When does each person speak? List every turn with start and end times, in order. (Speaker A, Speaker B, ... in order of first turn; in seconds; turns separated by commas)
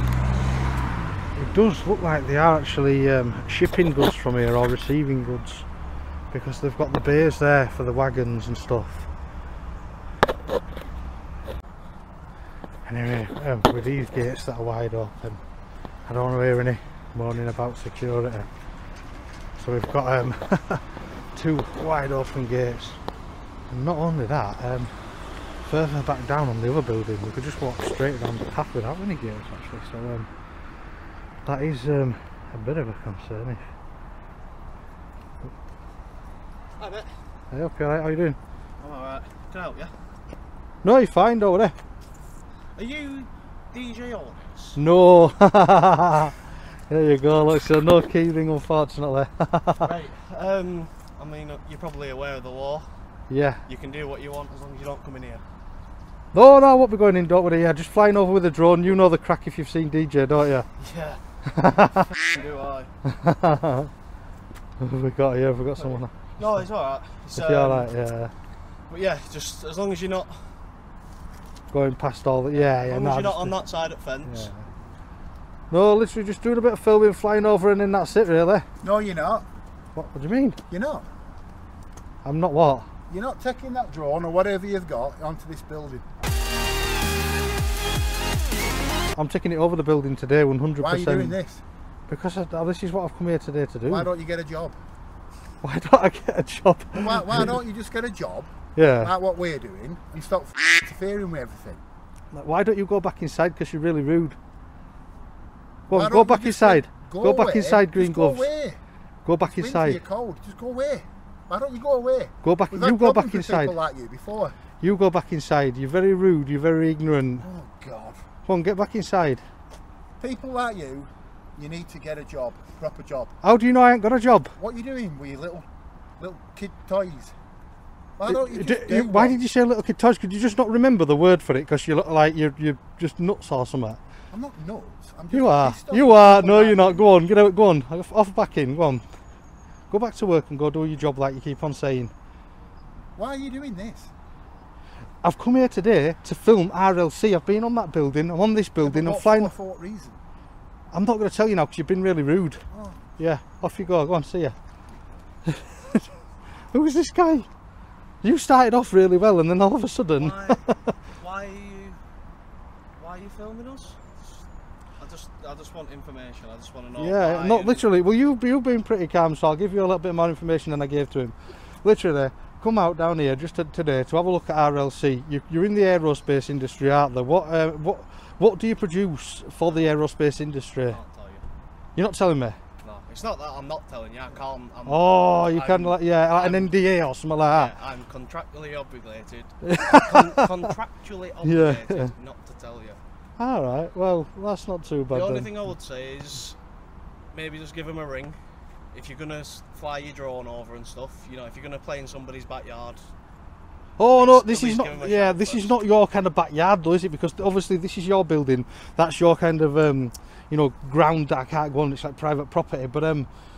Speaker A: 1.4-5.7, Speaker A: 6.3-9.1, Speaker A: 12.8-15.4, Speaker A: 16.1-18.5, Speaker A: 19.6-23.0, Speaker A: 23.7-25.0, Speaker A: 25.6-30.3, Speaker A: 31.4-33.6, Speaker B: 36.8-37.1, Speaker A: 37.5-38.4, Speaker B: 38.8-39.9, Speaker A: 40.8-41.8, Speaker B: 42.8-44.8, Speaker A: 44.8-46.4, Speaker A: 46.9-49.9, Speaker B: 49.8-52.9, Speaker A: 53.3-53.6, Speaker B: 53.7-55.4, Speaker A: 56.3-60.7, Speaker B: 60.8-61.2, Speaker A: 61.5-62.1, Speaker B: 62.2-62.9, Speaker A: 63.0-63.9, Speaker A: 64.8-66.6, Speaker B: 65.8-67.9, Speaker A: 67.3-68.3, Speaker B: 68.9-70.6, Speaker A: 71.7-73.6, Speaker B: 72.5-74.5, Speaker A: 74.2-74.7, Speaker A: 75.7-78.7, Speaker C: 78.8-79.5, Speaker A: 80.0-80.6, Speaker C: 80.7-81.1, Speaker A: 82.2-82.9, Speaker C: 83.1-86.0, Speaker A: 89.2-91.4, Speaker C: 90.8-91.6, Speaker A: 92.1-94.1, Speaker C: 93.9-94.8, Speaker A: 95.6-97.6, Speaker C: 97.0-101.8, Speaker A: 98.8-99.1, Speaker A: 102.3-104.4, Speaker A: 105.9-108.5, Speaker C: 105.9-108.8, Speaker A: 109.2-110.0, Speaker C: 109.5-114.6, Speaker A: 112.4-113.8, Speaker A: 114.8-117.5, Speaker C: 117.4-118.2, Speaker A: 118.5-119.5, Speaker C: 120.2-123.3, Speaker A: 123.4-124.5, Speaker C: 124.6-125.7, Speaker C: 126.2-127.3, Speaker C: 128.2-129.4, Speaker A: 128.3-134.0, Speaker C: 134.3-137.1, Speaker A: 135.3-139.0, Speaker A: 139.9-142.1, Speaker C: 143.2-144.1, Speaker A: 145.2-149.5, Speaker C: 148.8-150.2, Speaker A: 150.9-152.6, Speaker C: 152.7-153.0, Speaker A: 153.2-154.6, Speaker A: 155.5-156.1, Speaker A: 156.7-157.5, Speaker A: 158.2-160.9, Speaker B: 160.2-162.0, Speaker B: 163.0-164.2, Speaker B: 165.0-167.9, Speaker A: 167.0-181.0, Speaker B: 180.9-181.4, Speaker A: 181.9-182.6, Speaker B: 182.8-186.8, Speaker A: 184.8-187.7, Speaker B: 187.5-193.0, Speaker A: 189.6-190.6, Speaker A: 191.4-192.1, Speaker A: 193.4-195.6, Speaker B: 195.1-196.6, Speaker B: 197.3-198.4, Speaker B: 198.9-203.0, Speaker A: 204.0-213.3, Speaker B: 204.1-205.8